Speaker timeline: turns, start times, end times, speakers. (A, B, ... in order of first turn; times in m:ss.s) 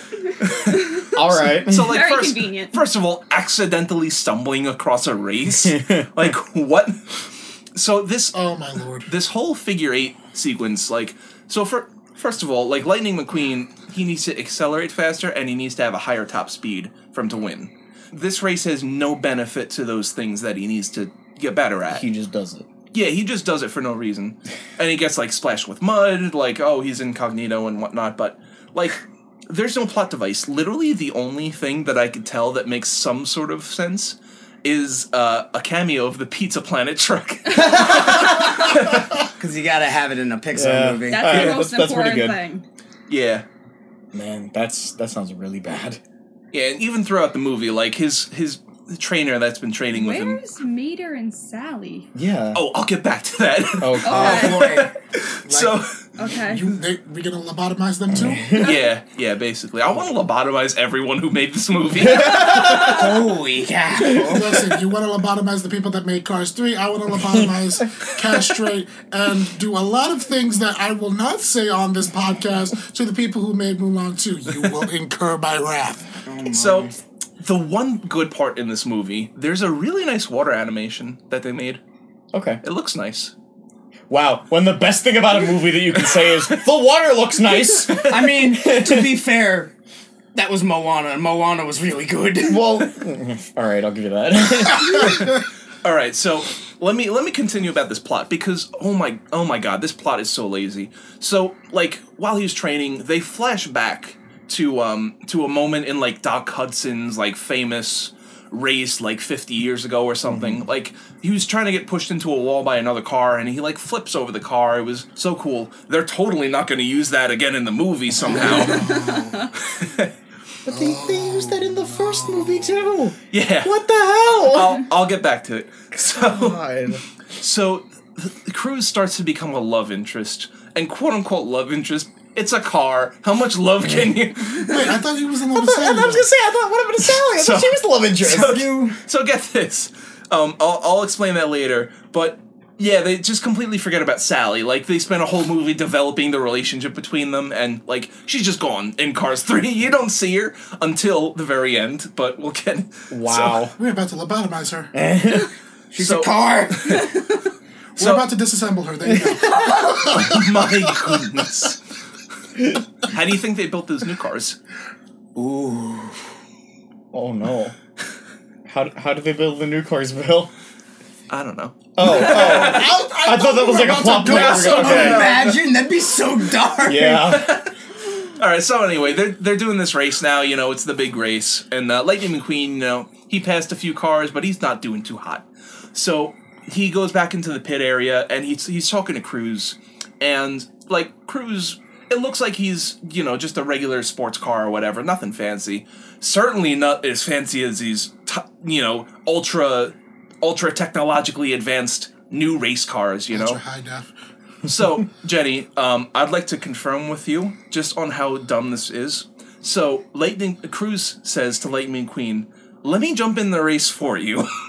0:00.4-0:08.4 A
0:01.1-0:02.0 B
0:01.7-0:02.8 C
0:05.6-0:06.0 B
0:08.3-0:09.1 D
0:09.0-0:22.0 A
0:21.9-0:22.6 B
0:22.9-0:39.0 A
0:37.7-0:38.2 B
0:39.4-0:41.5 E
0:40.5-0:42.4 B
0:41.1-0:42.6 C
0:43.1-0:43.4 A
0:44.1-0:46.0 B
0:46.5-0:50.4 A
0:49.9-0:52.1 C
0:52.1-0:52.6 B
0:52.5-0:56.0 A
0:53.8-0:54.6 B
0:54.0-0:54.7 C
0:54.1-0:54.9 E
0:55.5-0:58.6 D
0:56.2-0:56.6 C
0:58.1-0:58.7 B
0:58.6-1:02.8 A
0:58.6-0:58.9 C
1:02.0-1:03.1 B
1:02.7-1:04.6 E
1:04.0-1:04.4 B
1:04.3-1:16.2 D
1:16.2-1:17.0 E
1:16.5-1:21.8 A
1:22.3-1:22.6 B
1:22.6-1:23.3 A
1:24.1-1:29.1 B
1:25.9-1:26.6 A
1:27.9-1:28.2 A
1:28.1-1:29.7 E
1:30.3-1:32.6 E
1:32.4-1:35.3 B
1:35.8-1:59.0 A
1:50.3-1:50.6 B
1:58.1-1:59.5 D
1:58.3-1:58.6 B
1:58.4-1:59.5 C
1:59.6-2:00.1 A
2:00.6-2:04.8 B
2:00.7-2:02.8 D
2:03.3-2:06.6 A
2:06.0-2:07.0 B
2:07.4-2:15.0 A
2:14.5-2:16.3 D
2:15.5-2:18.6 B
2:17.1-2:33.4 A
2:18.2-2:19.0 E
2:33.1-2:33.7 B
2:33.4-2:34.9 D
2:34.9-2:35.5 B
2:35.9-2:37.1 E
2:36.0-2:37.1 A
2:38.0-2:41.2 D
2:38.0-2:38.3 A
2:39.1-2:39.6 B
2:39.4-2:40.2 C
2:40.1-2:41.8 A
2:43.1-2:44.6 A
2:45.4-2:46.2 E
2:47.1-2:47.7 B
2:48.6-2:50.5 B
2:51.3-2:53.0 A
2:52.0-2:55.2 B
2:52.2-2:55.5 D
2:54.1-2:55.6 A
2:54.5-2:57.2 E
2:56.8-2:57.5 B
2:57.1-2:57.7 A
2:58.2-3:23.6 A
3:23.3-3:24.1 D
3:24.6-3:34.5 A